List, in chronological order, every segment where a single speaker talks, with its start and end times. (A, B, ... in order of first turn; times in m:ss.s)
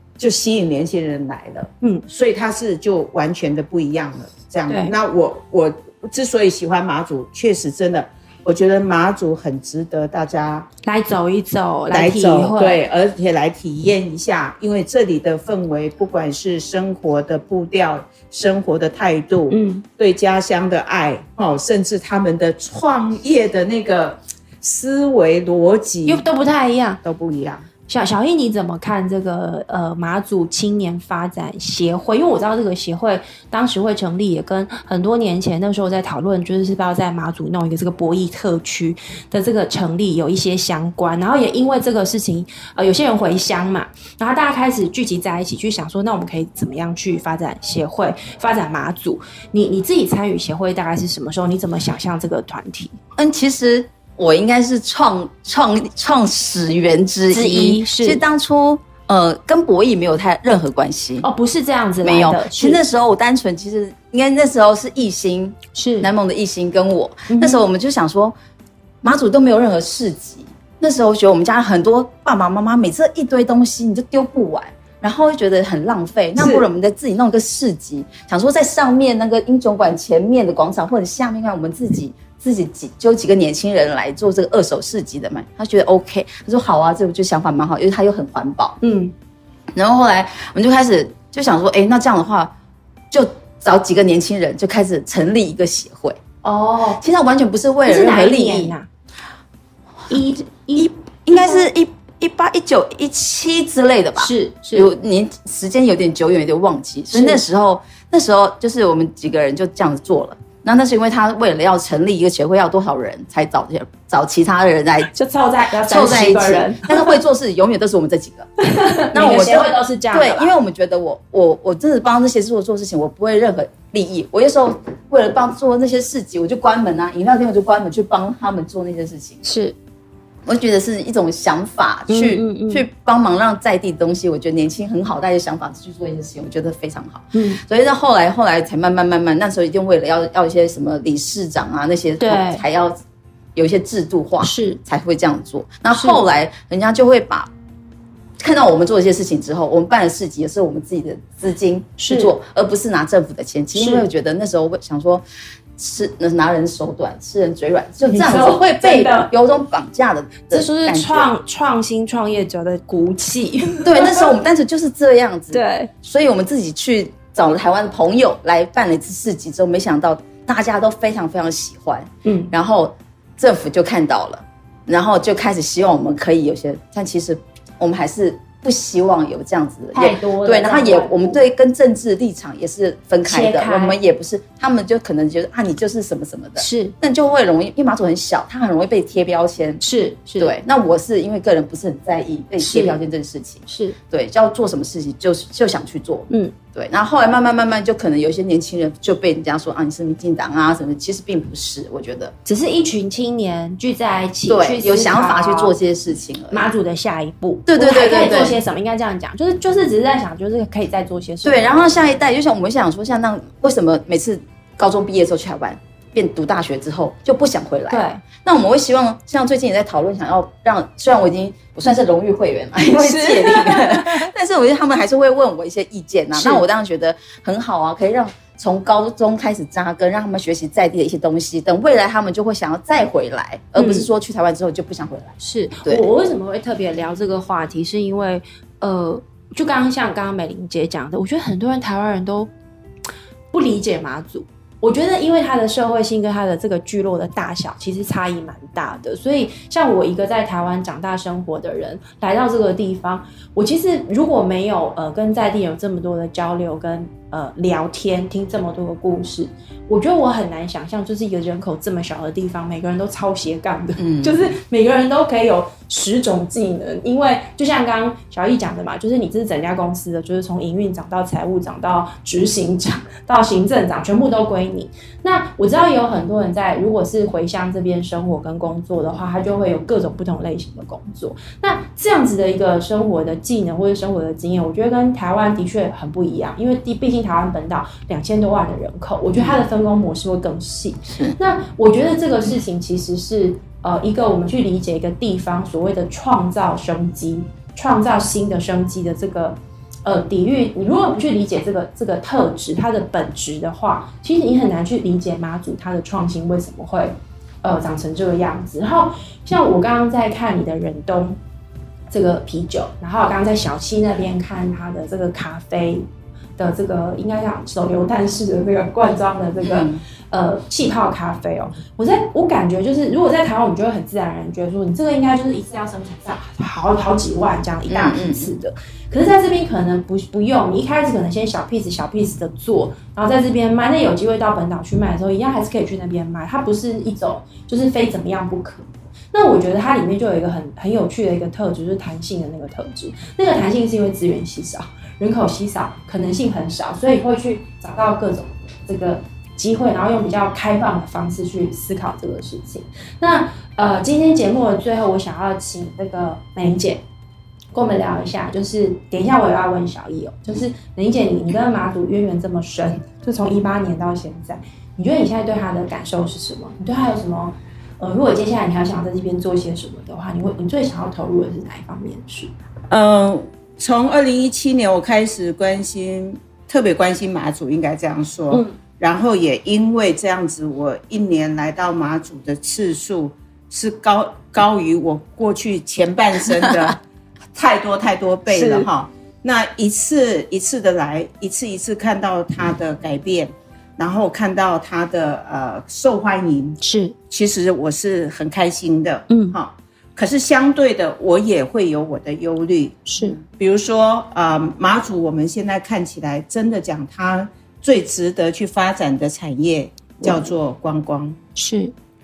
0:00.2-0:10.7 A
0:04.7-0:04.9 B
0:10.8-0:12.8 B
0:11.9-0:26.2 A
0:19.5-0:19.8 B
0:26.0-0:27.0 B
0:27.0-0:27.6 A
0:27.9-0:53.0 B
0:53.2-1:01.2 C
0:57.3-0:58.2 B
1:01.2-1:02.8 B
1:02.0-1:08.3 C
1:05.7-1:06.1 B
1:07.3-1:07.6 B
1:09.0-1:28.8 C
1:16.4-1:16.6 B
1:28.8-1:29.1 B
1:29.7-1:32.5 C
1:33.1-1:36.2 C
1:36.4-1:37.0 B
1:37.0-1:38.7 C
1:37.9-1:38.9 B
1:40.1-1:41.6 B
1:40.8-1:55.1 C
1:44.2-1:44.9 B
1:47.1-1:47.4 B
1:55.1-1:57.2 B
1:55.8-1:58.5 C
1:58.6-2:00.5 B
1:59.1-2:09.4 C
2:09.4-2:09.7 B
2:10.4-2:23.0 C
2:12.1-2:12.8 B
2:17.3-2:17.6 B
2:22.2-2:22.6 B
2:23.5-2:27.5 C
2:24.4-2:24.8 B
2:25.9-2:26.2 B
2:28.4-2:35.2 C
2:32.0-2:32.3 B
2:33.7-2:34.1 B
2:35.8-2:41.3 C
2:38.0-2:39.3 B
2:40.5-2:44.3 B
2:43.8-3:09.8 C
2:45.5-2:45.9 B
2:52.2-2:52.5 B
2:59.9-3:01.4 B
3:03.2-3:04.0 B
3:06.6-3:06.9 B
3:09.8-3:10.5 B
3:10.4-3:22.3 C
3:12.6-3:13.0 B
3:13.7-3:14.0 B
3:22.4-3:25.7 B
3:24.5-3:26.6 C
3:26.5-3:32.1 B
3:27.7-3:28.6 C
3:31.4-3:56.0 C
3:37.9-3:38.2 B
3:42.9-3:44.3 B
3:46.3-3:46.6 B
3:53.8-3:54.1 B
3:55.4-4:02.5 B
4:03.5-5:11.4 B
4:24.0-4:24.5 C
4:49.4-4:49.6 C
4:51.1-4:51.4 C
5:12.1-5:16.0 B
5:16.6-5:57.0 B
5:19.6-5:20.0 C
5:27.9-5:28.5 C
5:57.7-6:12.5 B
6:12.9-6:27.0 A
6:27.5-6:51.4 A
6:28.5-6:28.9 B
6:36.8-6:37.1 B
6:39.3-6:39.6 B
6:43.1-6:43.4 B
6:51.6-6:51.9 B